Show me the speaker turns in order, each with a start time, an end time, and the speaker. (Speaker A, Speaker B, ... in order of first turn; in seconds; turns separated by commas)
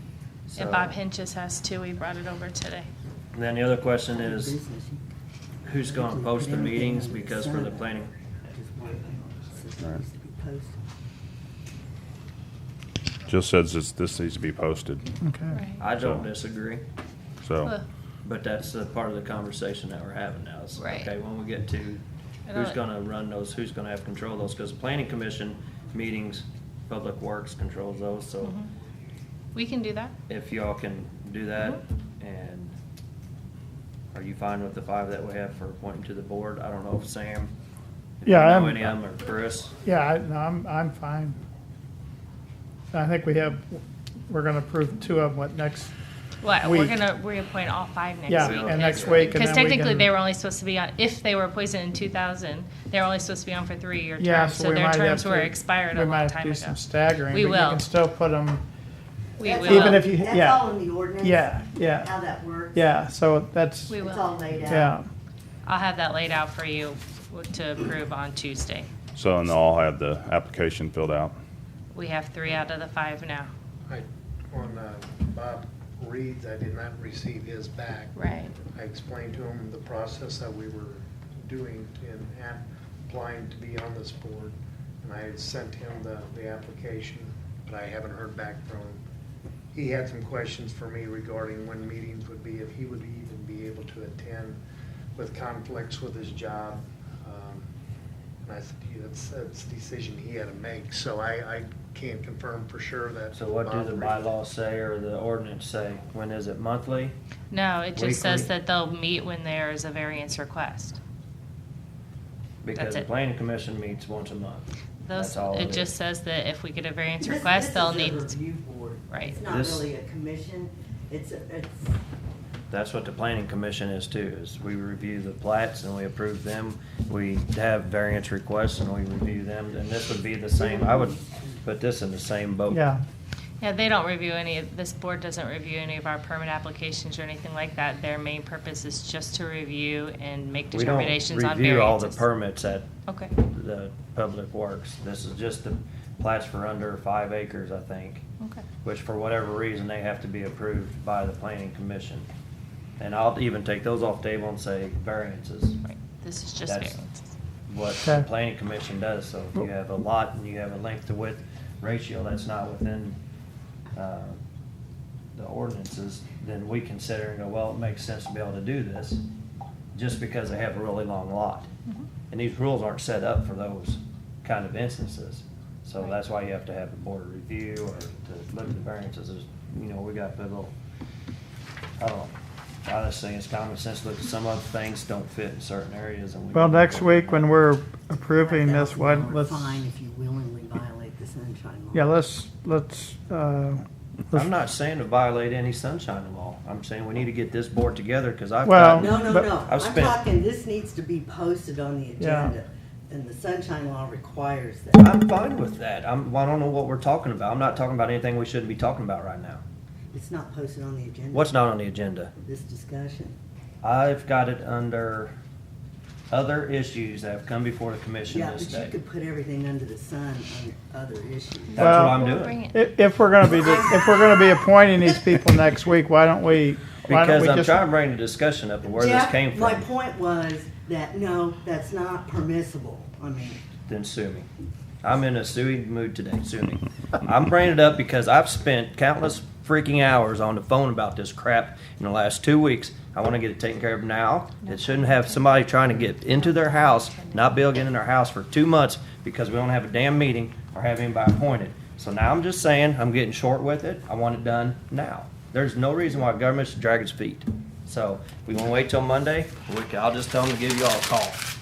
Speaker A: 0.5-0.9, Speaker B: 0.6-2.9, Speaker A: 3.3-4.6, Speaker C: 4.1-5.0, Speaker A: 5.6-8.1, Speaker C: 5.8-7.9, Speaker C: 8.5-10.8, Speaker D: 13.3-15.1, Speaker E: 15.2-15.6, Speaker B: 15.5-15.8, Speaker A: 15.8-16.8, Speaker D: 16.0-16.3, Speaker D: 17.4-17.7, Speaker A: 18.2-22.0, Speaker B: 20.8-21.1, Speaker B: 22.5-22.8, Speaker A: 22.5-28.6, Speaker B: 28.4-28.7, Speaker B: 29.5-30.1, Speaker A: 30.3-32.8, Speaker A: 34.1-37.5, Speaker A: 38.2-39.8, Speaker E: 38.2-38.9, Speaker E: 39.8-41.4, Speaker E: 42.9-45.9, Speaker B: 46.4-56.8, Speaker E: 46.6-46.9, Speaker E: 48.3-50.1, Speaker A: 48.3-49.4, Speaker E: 54.2-58.6, Speaker B: 57.3-57.9, Speaker B: 59.4-60.1, Speaker C: 59.4-62.9, Speaker E: 59.7-60.6, Speaker E: 61.2-62.1, Speaker E: 62.7-64.0, Speaker B: 63.9-64.4, Speaker C: 63.9-65.0, Speaker E: 64.7-65.1, Speaker B: 65.7-68.9, Speaker D: 69.1-71.4, Speaker B: 71.9-73.5, Speaker F: 73.9-78.1, Speaker B: 78.2-78.5, Speaker F: 78.7-89.0, Speaker F: 89.7-94.6, Speaker F: 95.2-97.7, Speaker F: 98.4-104.2, Speaker A: 103.3-107.2, Speaker B: 107.5-111.0, Speaker A: 108.0-108.5, Speaker A: 112.6-115.9, Speaker B: 112.8-113.1, Speaker B: 115.0-118.3, Speaker C: 117.2-122.0, Speaker B: 119.1-119.4, Speaker A: 119.5-119.9, Speaker A: 122.7-132.8, Speaker C: 130.6-131.6, Speaker E: 132.7-133.0, Speaker B: 133.6-142.2, Speaker A: 140.7-148.2, Speaker B: 143.1-143.3, Speaker B: 148.4-148.7, Speaker A: 148.8-152.3, Speaker A: 153.0-155.8, Speaker B: 155.8-157.3, Speaker A: 156.7-157.0, Speaker A: 157.7-163.2, Speaker A: 163.9-164.4, Speaker A: 165.3-169.2, Speaker A: 169.9-171.7, Speaker A: 172.3-180.7, Speaker A: 182.0-182.3, Speaker A: 182.8-187.5, Speaker E: 186.5-189.8, Speaker C: 188.4-192.1, Speaker E: 191.9-194.5, Speaker A: 194.3-200.2, Speaker E: 198.6-199.5, Speaker C: 199.0-205.1, Speaker E: 202.2-202.5, Speaker A: 205.0-209.6, Speaker C: 210.1-211.5, Speaker A: 211.3-212.3, Speaker C: 212.4-213.4, Speaker A: 213.8-215.3, Speaker A: 216.3-218.9, Speaker C: 218.3-221.9, Speaker A: 221.7-222.6, Speaker B: 221.8-222.9, Speaker E: 221.8-227.8, Speaker C: 223.4-224.3, Speaker A: 227.1-229.9, Speaker C: 228.9-233.6, Speaker A: 233.9-234.5, Speaker A: 235.0-261.4, Speaker B: 244.6-245.5, Speaker B: 246.1-247.5